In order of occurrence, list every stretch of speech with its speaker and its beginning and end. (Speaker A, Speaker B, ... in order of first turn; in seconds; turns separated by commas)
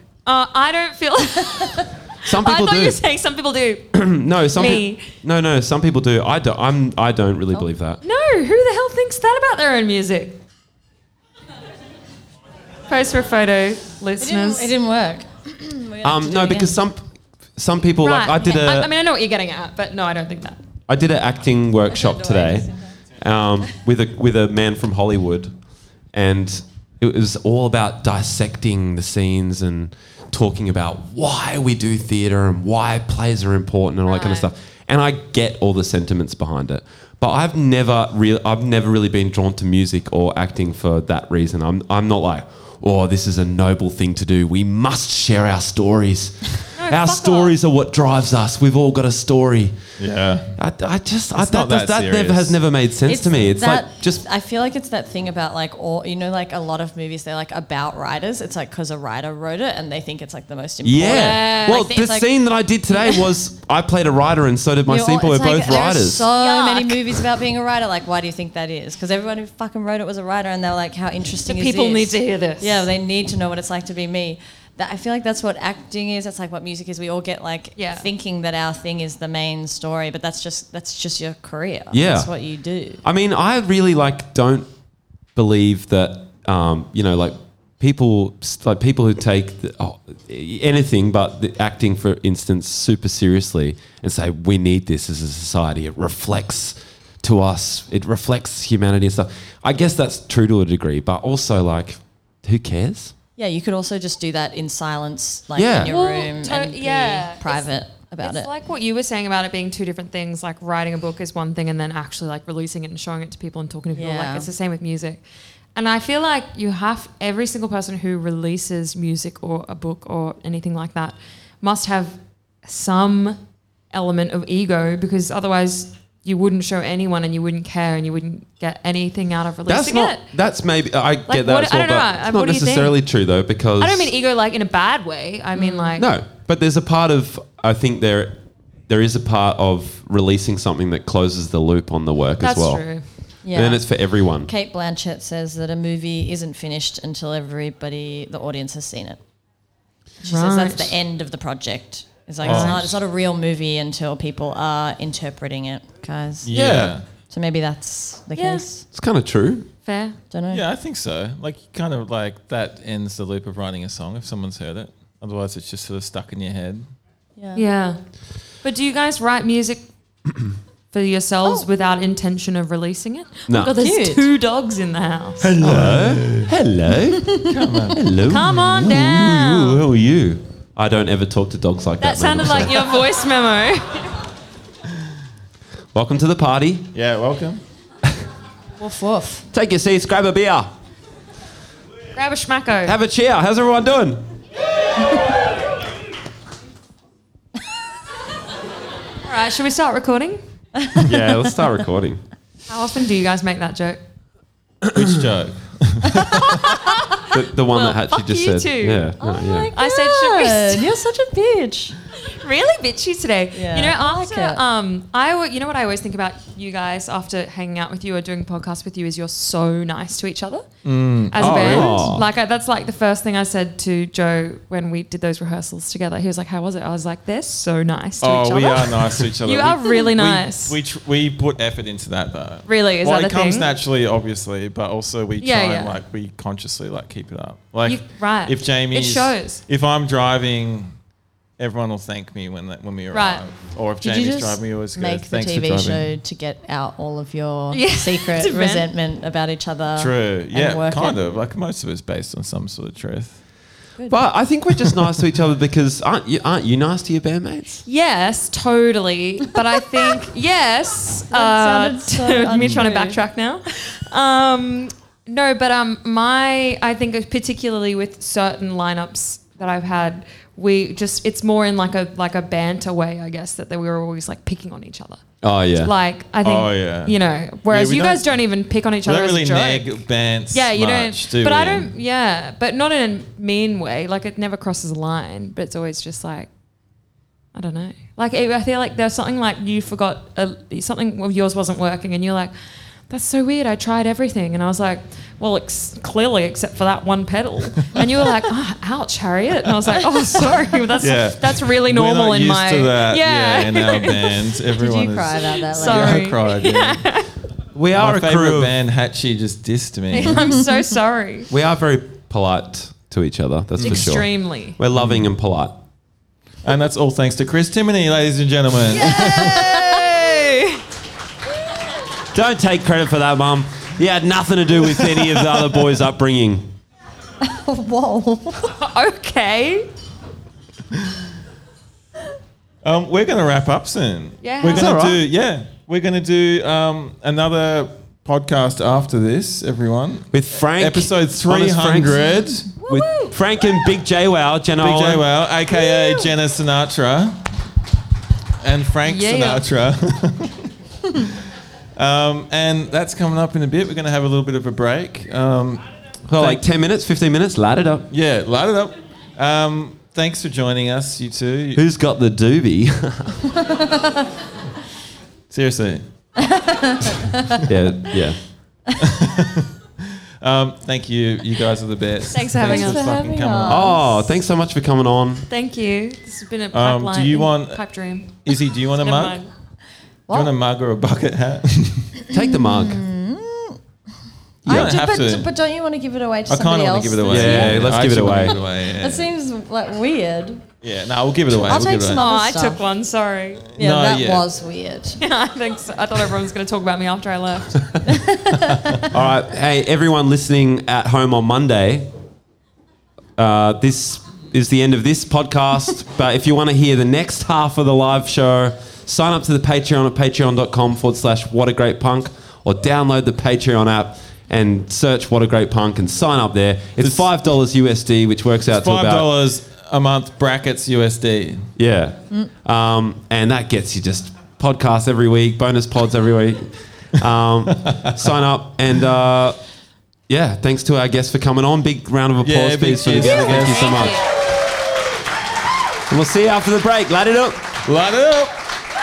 Speaker A: 0.3-5.1, Speaker B: 2.2-3.0, Speaker B: 3.9-8.0, Speaker A: 8.0-10.4, Speaker A: 12.9-14.7, Speaker C: 14.2-16.8, Speaker B: 16.0-18.9, Speaker A: 18.0-20.6, Speaker B: 20.9-25.6, Speaker C: 21.9-22.8, Speaker B: 26.1-50.0, Speaker A: 34.1-34.5, Speaker A: 46.8-47.5, Speaker D: 50.0-50.6, Speaker B: 50.6-54.2, Speaker D: 51.3-52.6, Speaker C: 53.1-62.3, Speaker B: 60.8-66.3, Speaker A: 61.1-61.8, Speaker C: 64.9-83.0, Speaker A: 66.3-67.0, Speaker A: 71.5-72.9, Speaker A: 77.8-78.1, Speaker B: 81.9-82.3, Speaker B: 83.0-84.7, Speaker B: 85.4-103.1, Speaker C: 103.4-108.5, Speaker B: 105.6-105.9, Speaker A: 105.9-107.7, Speaker A: 108.2-115.2, Speaker C: 113.9-114.5, Speaker A: 115.8-123.4, Speaker A: 123.9-130.2, Speaker B: 129.7-134.1, Speaker A: 131.3-133.0, Speaker A: 133.8-136.1, Speaker C: 135.6-136.0, Speaker B: 136.0-142.8, Speaker A: 142.4-143.1, Speaker C: 143.4-143.9, Speaker B: 143.5-144.5, Speaker C: 144.5-149.2, Speaker C: 150.2-156.5, Speaker A: 150.2-151.0, Speaker A: 152.4-152.8, Speaker D: 152.4-152.9, Speaker D: 156.4-157.1, Speaker B: 156.5-157.0, Speaker C: 157.3-158.8, Speaker A: 158.3-158.7, Speaker B: 158.9-159.7, Speaker A: 159.9-160.2, Speaker C: 160.3-160.6, Speaker D: 160.5-166.8, Speaker C: 167.4-167.6, Speaker A: 167.6-168.0, Speaker A: 168.6-169.8, Speaker A: 170.9-175.5, Speaker B: 173.5-173.7, Speaker C: 173.8-174.3, Speaker D: 175.4-176.5, Speaker B: 175.6-183.0, Speaker D: 177.4-178.0, Speaker A: 178.3-179.8, Speaker A: 182.0-184.2, Speaker B: 185.9-186.9, Speaker D: 186.9-187.6, Speaker C: 188.8-189.4, Speaker B: 189.5-190.7, Speaker A: 192.2-192.9, Speaker B: 192.9-194.2, Speaker A: 199.2-200.4, Speaker B: 201.0-202.2, Speaker A: 202.7-204.0, Speaker D: 204.9-206.6, Speaker B: 207.2-209.7, Speaker A: 207.7-210.9, Speaker C: 209.2-212.0, Speaker A: 212.3-220.7, Speaker C: 213.5-214.6, Speaker D: 220.8-222.3, Speaker A: 221.3-230.8, Speaker B: 221.4-222.2, Speaker D: 228.2-240.9, Speaker A: 232.7-233.7, Speaker A: 235.4-235.9, Speaker A: 237.9-239.6, Speaker D: 241.6-246.1, Speaker A: 243.1-243.4, Speaker C: 244.0-251.2, Speaker A: 247.7-248.9, Speaker D: 250.0-253.4, Speaker B: 254.1-257.9, Speaker A: 257.9-286.5, Speaker C: 261.3-263.2, Speaker B: 275.4-275.9, Speaker D: 276.4-277.2, Speaker D: 277.7-278.2, Speaker D: 279.1-281.9, Speaker A: 287.5-292.5, Speaker A: 293.1-304.5, Speaker D: 301.0-307.1, Speaker C: 304.8-306.2, Speaker A: 305.6-307.3, Speaker B: 307.7-308.7, Speaker D: 307.9-310.5, Speaker A: 310.1-311.5, Speaker B: 311.5-315.8, Speaker D: 313.8-314.2, Speaker A: 313.8-314.8, Speaker D: 315.0-315.3, Speaker D: 316.6-319.7, Speaker A: 318.9-320.8, Speaker C: 319.3-320.0, Speaker B: 322.3-326.7, Speaker D: 325.1-325.6, Speaker C: 327.4-328.7, Speaker A: 328.6-329.9, Speaker D: 330.9-331.2, Speaker D: 332.8-342.7, Speaker A: 334.4-335.0, Speaker B: 334.7-335.2, Speaker B: 340.3-345.3, Speaker A: 342.9-343.3, Speaker D: 344.8-347.4, Speaker A: 345.7-346.3, Speaker D: 348.6-351.4, Speaker A: 349.1-349.6, Speaker D: 351.9-356.6, Speaker B: 356.3-358.1, Speaker D: 358.1-361.8, Speaker B: 361.8-363.5, Speaker D: 365.5-366.0, Speaker C: 366.4-367.6, Speaker B: 367.6-368.4, Speaker D: 369.0-373.9, Speaker A: 372.3-373.3, Speaker C: 372.6-374.0, Speaker B: 373.7-375.5, Speaker A: 375.5-379.5, Speaker D: 376.7-377.8, Speaker D: 378.4-379.4, Speaker D: 380.3-382.1, Speaker B: 382.3-383.0, Speaker C: 382.3-383.8, Speaker C: 384.6-390.7, Speaker B: 384.7-384.9, Speaker D: 384.7-385.5, Speaker D: 386.5-389.3, Speaker B: 387.3-388.6, Speaker D: 390.8-392.2, Speaker C: 391.5-392.8, Speaker A: 392.1-393.7, Speaker D: 393.8-394.5, Speaker C: 393.8-395.2, Speaker A: 395.2-397.9, Speaker C: 398.1-399.0, Speaker D: 398.7-399.0, Speaker B: 399.1-402.1, Speaker B: 403.4-419.3, Speaker D: 417.0-417.3, Speaker D: 418.7-421.7, Speaker B: 421.8-429.6, Speaker B: 430.3-434.2, Speaker D: 432.4-434.0, Speaker A: 433.2-434.3, Speaker B: 436.1-437.6, Speaker D: 437.9-438.5